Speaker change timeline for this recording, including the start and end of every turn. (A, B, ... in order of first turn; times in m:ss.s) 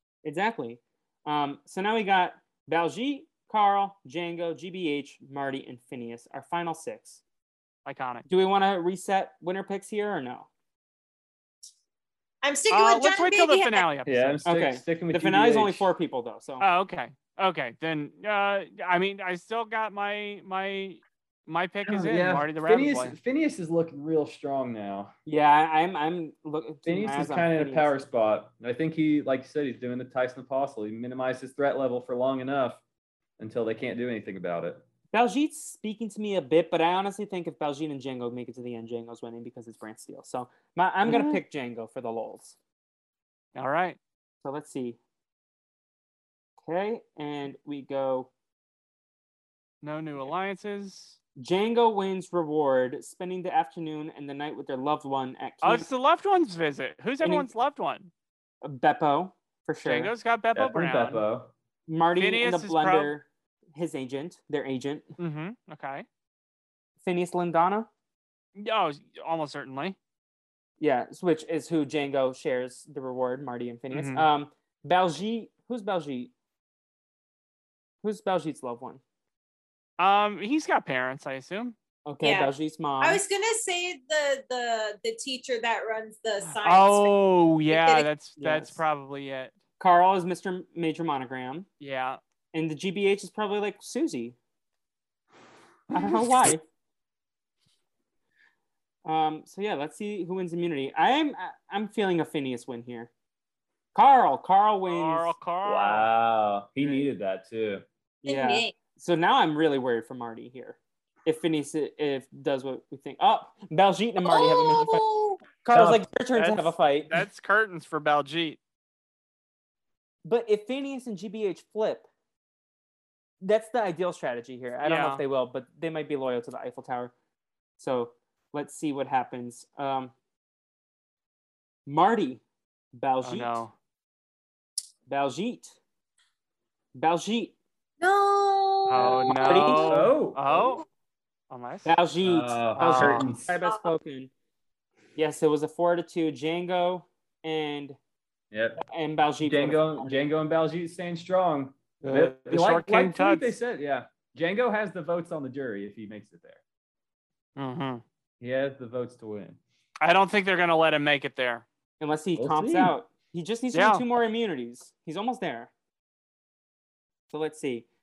0:00.2-0:07.2 A
0:07.8-0:08.3 B
0:08.3-0:10.5 A
0:12.4-0:13.8 C
0:12.7-0:14.4 B
0:14.0-0:15.9 D
0:14.4-0:16.6 A
0:16.6-0:23.2 B
0:21.8-0:25.1 D
0:25.2-0:27.9 A
0:26.8-0:32.8 D
0:33.4-0:34.8 D
0:35.1-0:42.5 A
0:41.1-0:41.4 B
0:43.5-0:44.0 B
0:44.4-0:45.0 A
0:46.6-0:48.3 A
0:49.8-0:51.2 B
0:51.4-0:55.9 A
0:55.6-0:58.1 B
0:57.2-0:57.5 A
0:58.6-1:00.1 A
0:59.8-1:01.2 B
1:00.5-1:01.5 D
1:01.9-1:05.1 A
1:02.2-1:03.1 B
1:05.2-1:06.0 B
1:07.0-1:07.9 A
1:08.6-1:10.0 B
1:10.8-1:16.3 A
1:13.9-1:14.2 B
1:18.0-1:19.0 A
1:20.0-1:21.7 B
1:22.1-1:23.2 A
1:22.2-1:27.1 C
1:26.5-1:29.6 B
1:27.7-1:28.1 C
1:28.4-1:28.8 A
1:29.8-1:31.6 A
1:31.8-1:32.2 B
1:32.5-1:34.4 A
1:35.9-1:36.6 A
1:35.9-1:36.2 B
1:39.0-1:43.1 A
1:43.9-1:45.4 A
1:44.9-1:46.1 B
1:45.6-1:47.8 D
1:48.2-1:55.0 A
1:48.2-1:48.7 C
1:54.2-1:55.4 C
1:55.6-1:57.2 A
1:55.7-1:56.0 D
1:56.3-1:58.6 B
2:00.2-2:02.0 A
2:03.4-2:07.1 A
2:04.8-2:05.2 B
2:07.8-2:10.1 A
2:11.8-2:12.4 A
2:12.9-2:13.6 A
2:13.2-2:13.7 B
2:15.1-2:15.8 A
2:16.9-2:17.5 A
2:18.0-2:19.3 C
2:18.9-2:20.8 B
2:19.0-2:20.6 D
2:19.3-2:20.1 A
2:21.5-2:21.9 B
2:21.8-2:24.3 A
2:22.2-2:23.5 D
2:22.8-2:23.2 B
2:25.2-2:28.0 A
2:28.5-2:28.8 D
2:28.8-2:30.3 A
2:29.4-2:36.6 D
2:32.0-2:33.5 B
2:37.6-2:38.0 B
2:38.4-2:39.6 D
2:40.0-2:41.6 B
2:42.0-2:45.7 A
2:42.4-2:43.0 D
2:43.7-2:44.0 B
2:47.3-2:47.8 A